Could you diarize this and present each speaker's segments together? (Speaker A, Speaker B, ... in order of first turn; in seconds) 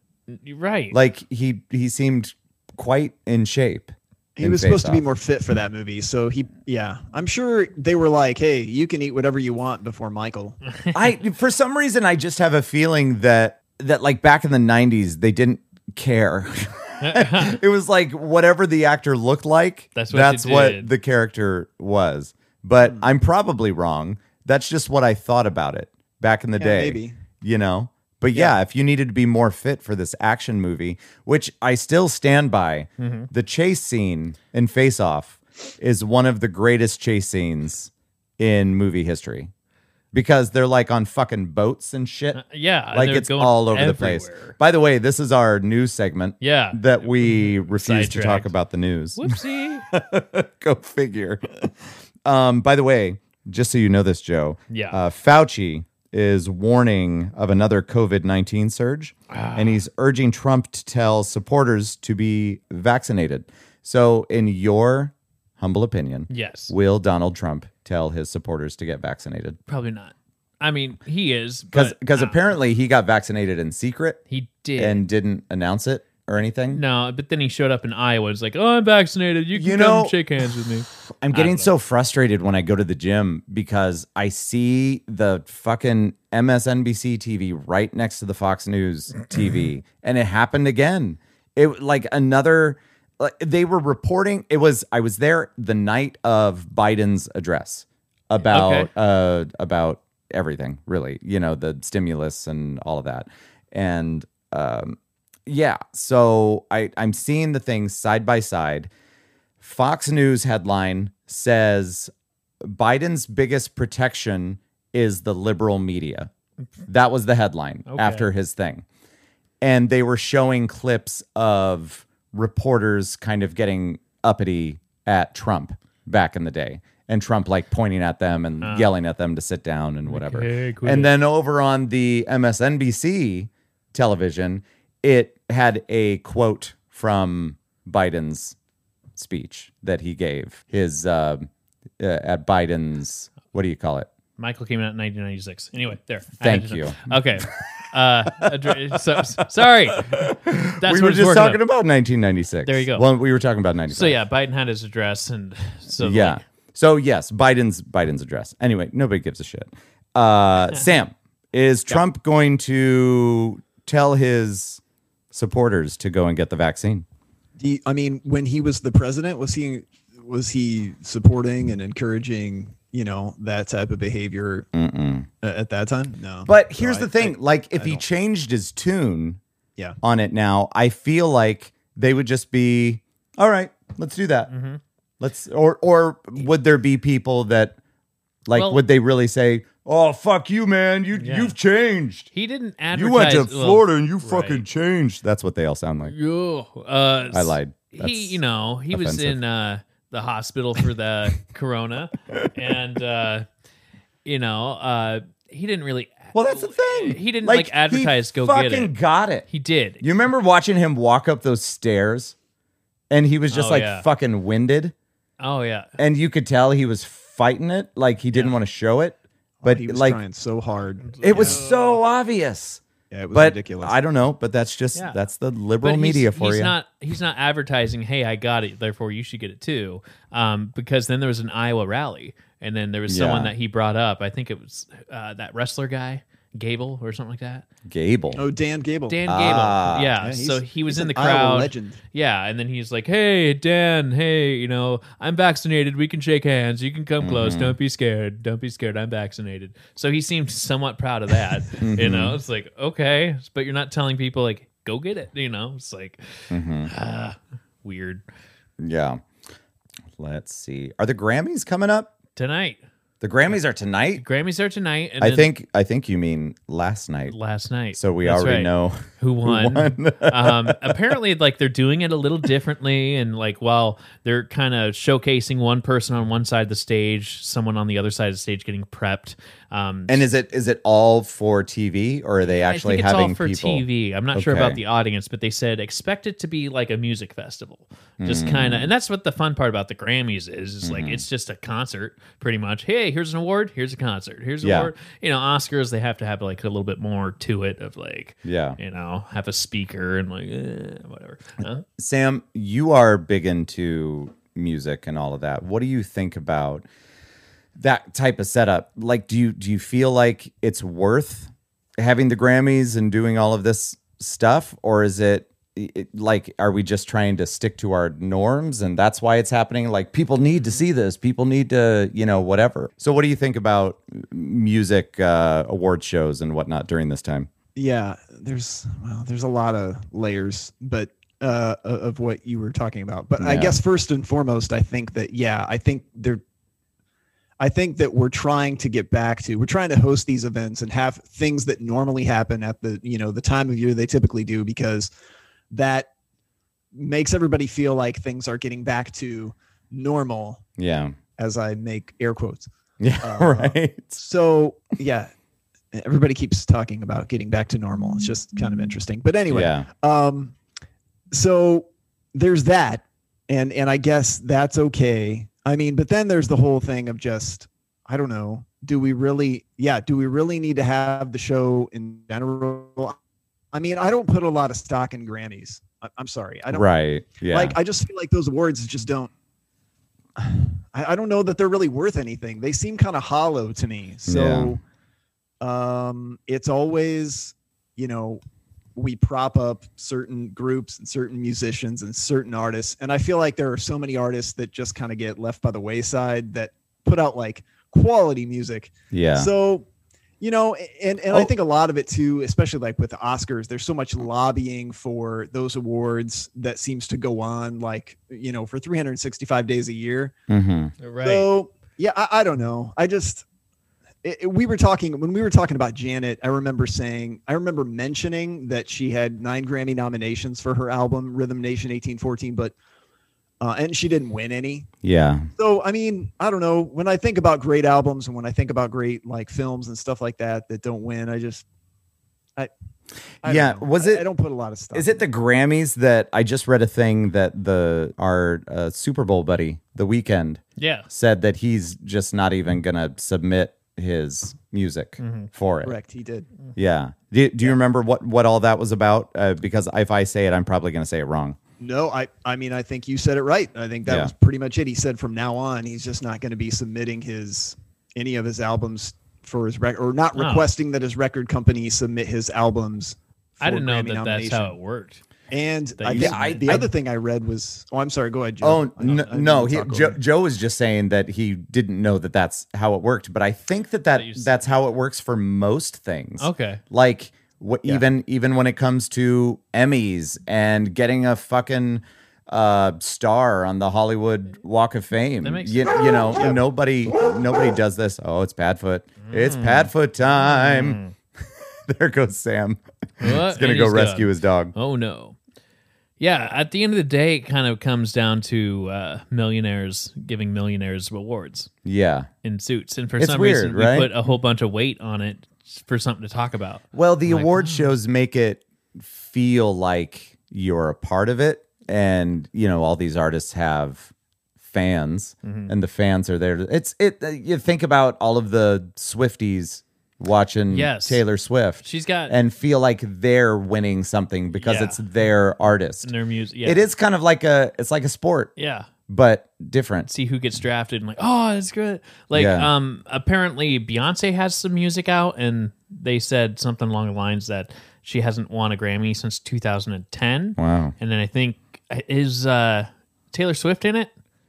Speaker A: 0.3-1.0, 17.0-17.6, 19.9-20.9, 33.0-33.3, 42.3-44.6, 46.4-48.5, 49.2-49.9, 54.7-55.0, 59.3-59.8, 66.3-66.7, 69.7-72.5, 74.3-75.0, 76.7-81.7, 98.5-98.9, 117.9-118.3, 128.6-128.9, 130.1-131.1, 144.4-150.2, 150.8-151.6, 152.6-153.1, 153.9-156.4, 184.5-184.8, 188.6-188.8, 191.2-191.5, 192.3-194.6, 196.0-203.5, 204.2-208.9, 209.5-210.0, 213.5-214.1, 215.4-215.9, 221.0-222.0, 225.8-237.7, 239.1-258.2, 262.4-262.8, 264.2-265.5, 267.3-280.3, 282.4-301.9, 411.0-411.5, 440.8-441.1, 445.2-445.5, 460.4-460.7, 463.6-465.2, 466.0-466.9, 474.1-474.6, 476.4-476.8, 485.4-486.0, 489.2-491.1, 493.2-495.4, 496.2-501.7, 502.4-507.9, 515.4-515.7, 520.7-521.2, 521.8-522.4, 524.6-525.0, 526.0-526.8, 528.6-528.9, 530.1-544.1
Speaker B: 0.9-5.0, 10.9-39.5, 40.1-51.7, 52.2-69.6, 71.7-74.2, 74.8-76.8, 79.6-80.2, 81.2-108.9, 109.6-116.3, 116.9-118.8, 119.6-138.6, 139.2-144.1, 146.4-147.5, 148.3-149.3, 149.9-154.2, 156.0-164.8, 165.3-167.1, 174.7-175.3, 176.5-179.4, 180.0-184.5, 185.2-187.8, 188.5-192.3, 192.9-196.1, 197.3-198.4, 198.9-199.4, 206.3-209.5, 210.0-212.3, 213.1-214.9, 216.0-220.2, 221.2-222.8, 223.3-226.8, 233.1-233.5, 237.9-238.4, 239.3-240.1, 247.2-247.8, 251.7-252.4, 256.5-256.9, 258.8-259.2, 260.2-262.1, 263.2-264.2, 265.2-267.4, 267.9-271.0, 280.1-284.8, 288.2-288.9, 290.8-291.2, 294.6-294.9, 298.4-298.8, 301.9-306.9, 307.8-327.5, 333.4-333.8, 350.8-351.2, 353.0-354.2, 359.5-359.9, 376.7-377.8, 384.3-384.8, 399.1-399.5, 410.5-410.9, 425.0-425.5, 433.4-434.2, 434.9-445.9, 446.8-451.6, 454.1-454.3, 466.1-466.8, 468.6-491.0, 491.9-494.7, 501.8-502.3, 503.2-504.1, 506.9-514.1, 514.6-526.1, 526.6-528.5, 529.1-530.1, 532.3-532.7, 540.6-540.9
Speaker C: 4.4-10.6, 26.6-27.2, 167.6-174.7, 175.4-178.0, 219.6-221.6, 223.1-224.0, 238.3-239.2, 240.2-242.0, 327.8-336.4, 337.6-345.1, 345.7-346.1, 346.9-350.6, 351.4-352.7, 353.2-355.3, 355.9-360.6, 361.3-373.2, 373.7-379.3, 380.4-384.8, 385.6-388.4, 389.0-399.9, 400.4-410.3, 411.2-413.4, 414.2-422.8, 423.6-424.9, 425.6-431.6, 433.4-435.2, 445.8-446.5, 451.8-464.7, 465.5-470.2